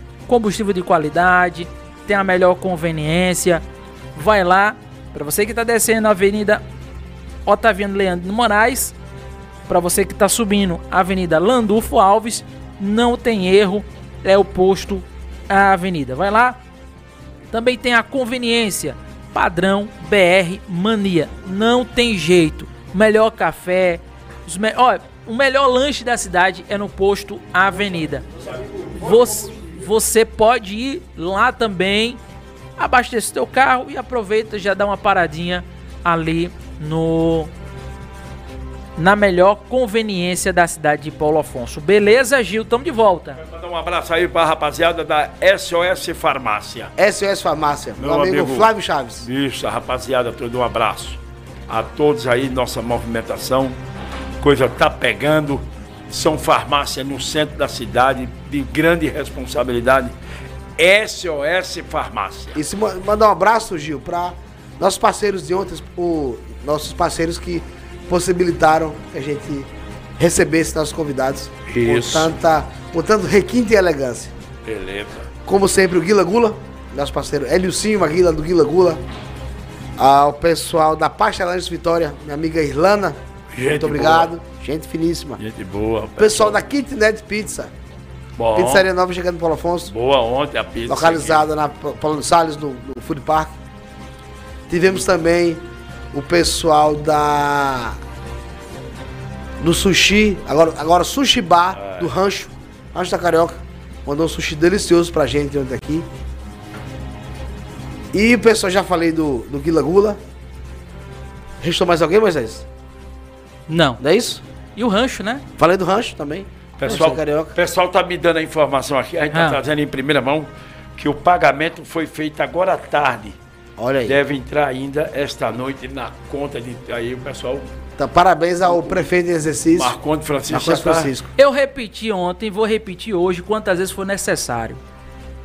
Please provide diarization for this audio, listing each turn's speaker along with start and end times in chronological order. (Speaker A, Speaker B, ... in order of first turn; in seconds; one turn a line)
Speaker A: 0.3-3.6
Speaker A: 4.2-6.6
Speaker A: 7.5-8.9
Speaker A: 9.7-16.6
Speaker A: 17.5-28.3
Speaker B: 28.3-29.5
Speaker A: 29.0-32.2
Speaker A: 32.8-37.5
Speaker A: 39.0-43.4
Speaker C: 43.4-46.9
Speaker B: 47.0-49.3
Speaker C: 48.0-48.7
Speaker C: 49.2-53.8
Speaker C: 54.4-60.1
Speaker C: 60.8-62.6
Speaker B: 62.5-74.3
Speaker C: 71.7-72.3
Speaker C: 74.7-75.3
Speaker B: 75.5-79.0
Speaker B: 80.0-85.4
Speaker C: 83.5-84.3
Speaker C: 85.4-86.6
Speaker B: 86.2-87.7
Speaker C: 88.4-88.9
Speaker B: 88.5-89.9
Speaker C: 89.9-91.5
Speaker B: 90.9-93.5
Speaker B: 94.7-98.0
Speaker B: 99.6-106.1
Speaker C: 101.8-102.1
Speaker B: 108.1-110.2
Speaker B: 111.6-112.7
Speaker A: 113.7-114.0
Speaker B: 114.0-114.4
Speaker A: 114.8-115.5
Speaker B: 115.6-117.6
Speaker C: 116.8-123.4
Speaker A: 119.3-119.6
Speaker B: 123.8-124.2
Speaker C: 124.1-127.7
Speaker B: 128.0-130.0
Speaker C: 128.8-129.0
Speaker C: 129.7-131.1
Speaker B: 130.5-131.3
Speaker A: 131.4-134.8